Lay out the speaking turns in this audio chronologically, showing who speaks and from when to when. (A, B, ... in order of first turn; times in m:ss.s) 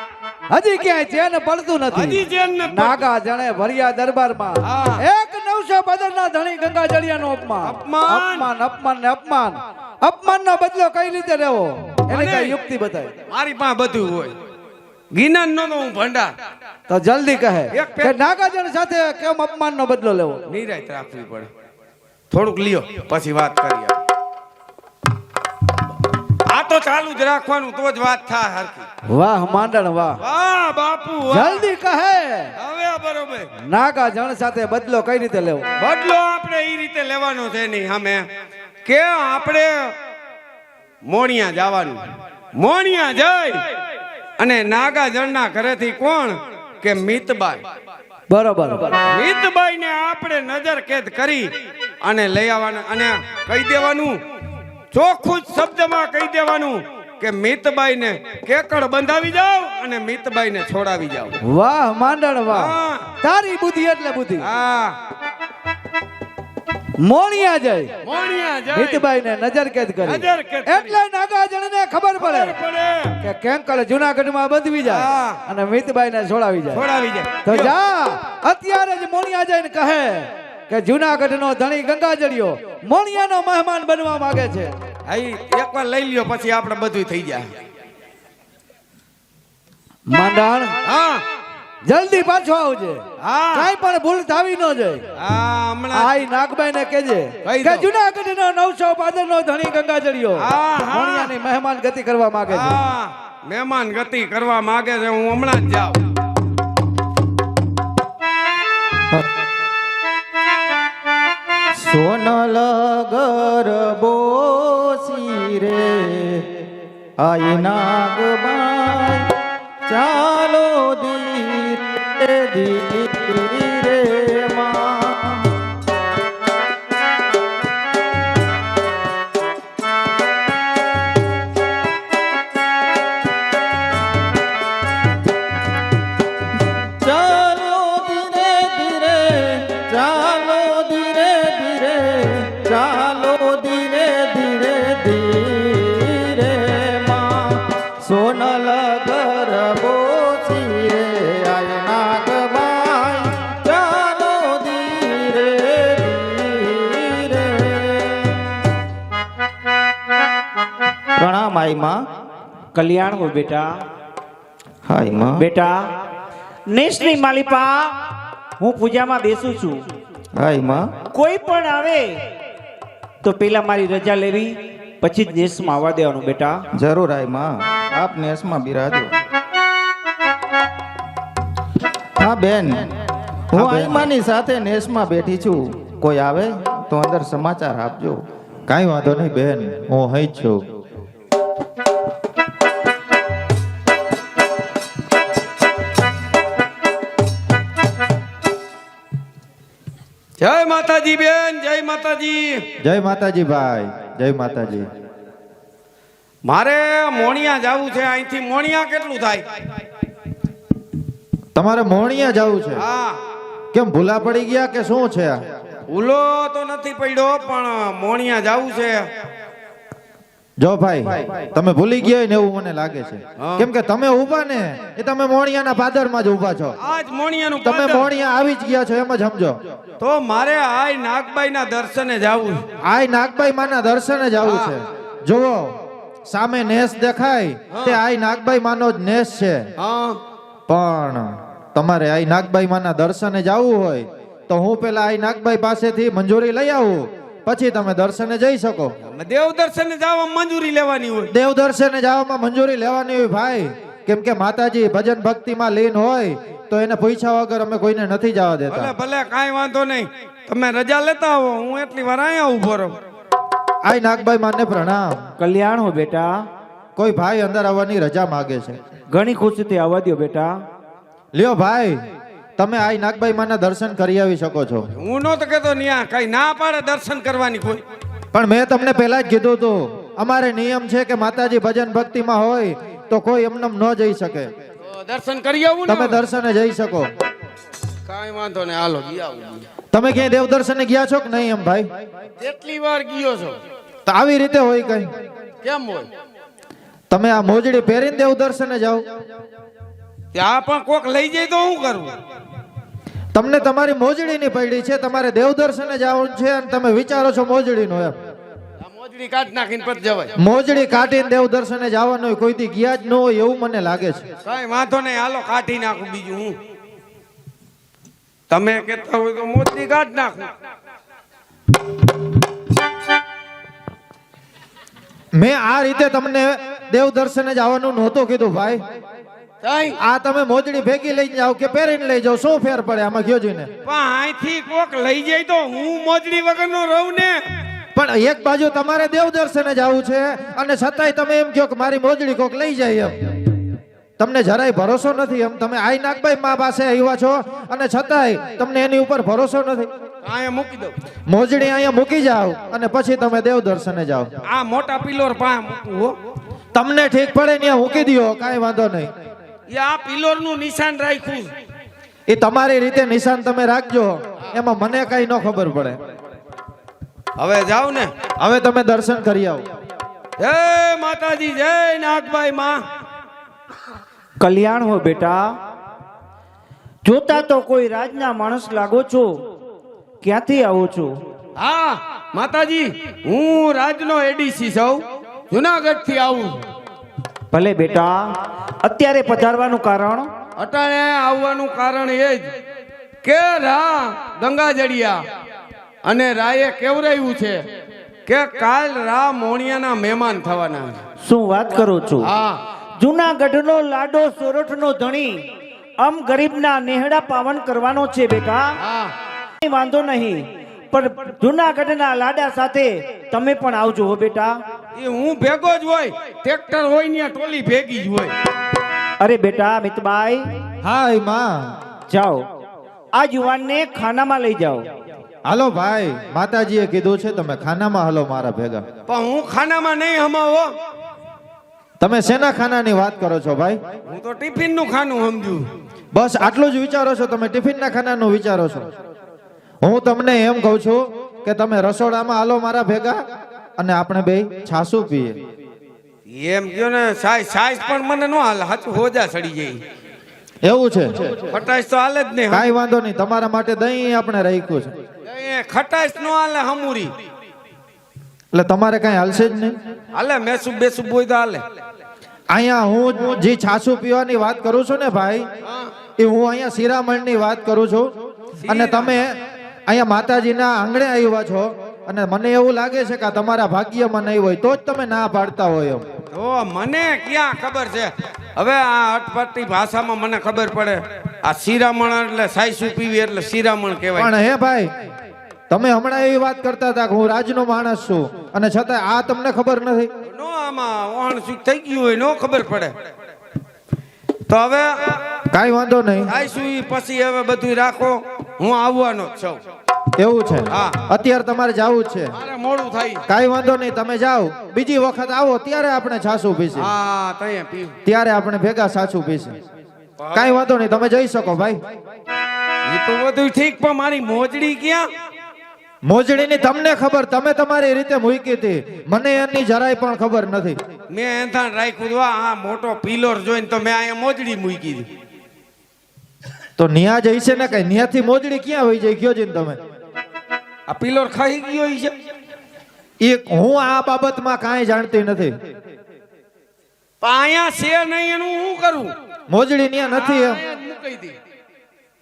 0:00.5-0:13.1 A
0:01.9-0:03.1 B
0:04.6-0:05.0 B
0:07.6-0:08.5 B
0:12.1-0:12.6 B
0:13.3-0:14.4 B
0:15.1-0:16.3 B
0:16.9-0:20.5 A
0:17.7-0:18.2 B
0:20.5-0:21.5 B
0:22.3-0:24.0 B
0:26.5-0:28.9 B
0:29.1-0:30.2 A
0:30.2-0:31.7 B
0:31.3-0:32.5 A
0:32.6-0:33.5 B
0:33.7-0:35.7 A
0:35.8-0:38.3 B
0:38.8-0:39.9 B
0:41.1-0:42.0 B
0:42.6-0:43.6 B
0:44.4-0:47.6 B
0:48.3-0:49.0 A
0:49.1-0:51.5 B
0:52.0-0:54.2 B
0:54.9-1:01.4 B
1:01.4-1:04.5 A
1:02.5-1:03.0 B
1:04.4-1:05.0 B
1:07.0-1:07.9 A
1:08.0-1:09.1 B
1:08.7-1:12.6 A
1:10.0-1:11.0 B
1:12.2-1:13.1 B
1:13.2-1:16.9 A
1:14.8-1:15.4 B
1:16.7-1:17.8 B
1:17.4-1:24.7 A
1:25.1-1:27.5 B
1:30.1-1:30.8 A
1:30.8-1:31.2 B
1:31.8-1:35.0 A
1:33.2-1:33.7 B
1:35.2-1:36.1 B
1:35.9-1:42.8 A
1:37.5-1:37.9 B
1:40.4-1:41.3 B
1:42.5-1:46.0 B
1:51.8-1:56.4 C
1:57.2-1:59.3 C
1:59.9-2:05.5 C
2:17.0-2:38.4 C
2:41.2-2:42.0 C
2:42.7-2:43.8 D
2:44.8-2:45.5 C
2:45.4-2:45.9 D
2:46.7-2:49.8 D
2:50.4-2:50.9 C
2:51.1-2:52.2 D
2:53.2-2:56.7 D
2:56.8-2:59.1 C
3:02.2-3:08.2 C
3:03.5-3:04.1 E
3:08.7-3:10.6 E
3:20.4-3:22.6 B
3:22.8-3:24.9 E
3:26.4-3:29.4 B
3:31.6-3:32.8 E
3:32.8-3:33.2 B
3:33.7-3:35.4 E
3:35.9-3:39.1 B
3:40.6-3:46.8 E
3:43.4-3:43.7 B
3:46.8-3:48.1 B
3:47.6-3:49.6 E
3:50.0-3:52.6 B
3:52.8-3:55.8 E
3:54.4-3:54.8 B
3:56.3-3:59.6 E
3:57.7-3:58.0 B
3:59.8-4:00.2 B
4:00.7-4:08.9 E
4:09.1-4:11.3 B
4:11.3-4:18.9 E
4:18.7-4:23.0 B
4:23.8-4:25.2 E
4:25.4-4:26.4 D
4:27.0-4:28.8 E
4:29.1-4:30.6 D
4:31.3-4:32.0 E
4:32.6-4:34.9 E
4:35.0-4:37.8 B
4:38.3-4:44.5 E
4:44.9-4:46.2 B
4:45.9-4:47.1 E
4:48.1-4:49.7 B
4:49.9-4:51.9 E
4:52.4-4:53.6 B
4:54.1-4:55.1 E
4:55.6-4:56.1 B
4:57.1-4:59.1 E
5:00.3-5:02.1 B
5:03.3-5:08.2 E
5:08.8-5:10.3 B
5:10.4-5:14.2 E
5:14.4-5:16.6 B
5:18.5-5:20.5 B
5:25.3-5:28.8 E
5:29.6-5:30.0 B
5:30.0-5:33.7 E
5:33.8-5:37.4 B
5:38.0-5:43.6 E
5:44.2-5:49.9 E
5:50.2-5:51.0 B
5:51.3-5:54.3 E
5:54.4-5:56.2 B
5:56.7-5:59.1 E
5:59.7-6:01.5 B
6:02.3-6:06.0 E
6:07.4-6:08.1 B
6:08.4-6:09.6 E
6:10.4-6:12.8 B
6:14.4-6:15.6 D
6:17.0-6:19.3 D
6:20.2-6:21.2 D
6:21.6-6:26.6 B
6:27.5-6:28.3 D
6:28.8-6:30.3 D
6:30.6-6:32.5 B
6:33.2-6:35.2 B
6:36.0-6:37.6 B
6:38.3-6:41.0 B
6:41.2-6:42.3 D
6:42.3-6:42.6 B
6:43.0-6:45.4 D
6:46.0-6:48.7 D
6:48.8-6:49.1 B
6:49.6-6:54.6 D
6:55.0-6:58.3 B
6:59.2-7:00.4 D
7:00.8-7:01.8 E
7:02.1-7:02.4 D
7:03.1-7:04.9 D
7:05.4-7:08.8 E
7:09.1-7:10.7 B
7:12.0-7:13.8 E
7:14.1-7:15.7 B
7:16.1-7:18.9 E
7:19.8-7:23.2 E
7:23.8-7:25.4 E
7:26.3-7:29.8 B
7:30.6-7:31.5 E
7:31.5-7:32.7 B
7:32.5-7:34.9 E
7:35.3-7:37.1 B
7:38.5-7:39.7 E
7:40.1-7:41.6 B
7:42.5-7:45.4 E
7:45.6-7:45.9 B
7:46.2-7:48.1 E
7:48.6-7:49.2 B
7:48.7-7:56.0 E
7:56.3-8:04.3 B
8:04.2-8:04.9 E
8:05.7-8:10.1 E
8:10.3-8:13.0 B
8:14.5-8:15.2 B
8:15.5-8:16.3 E
8:16.3-8:19.6 B
8:20.2-8:22.3 E
8:20.7-8:21.0 B
8:22.3-8:23.2 B
8:23.3-8:26.9 E
8:26.8-8:28.0 B
8:28.0-8:29.6 E
8:30.2-8:30.6 B
8:30.3-8:31.8 E
8:32.9-8:35.1 B
8:36.0-8:40.8 E
8:41.1-8:45.1 B
8:46.8-8:49.8 E
8:50.9-8:52.1 B
8:53.2-8:55.6 E
8:57.2-8:59.1 B
8:59.5-9:00.6 E
9:00.0-9:01.4 B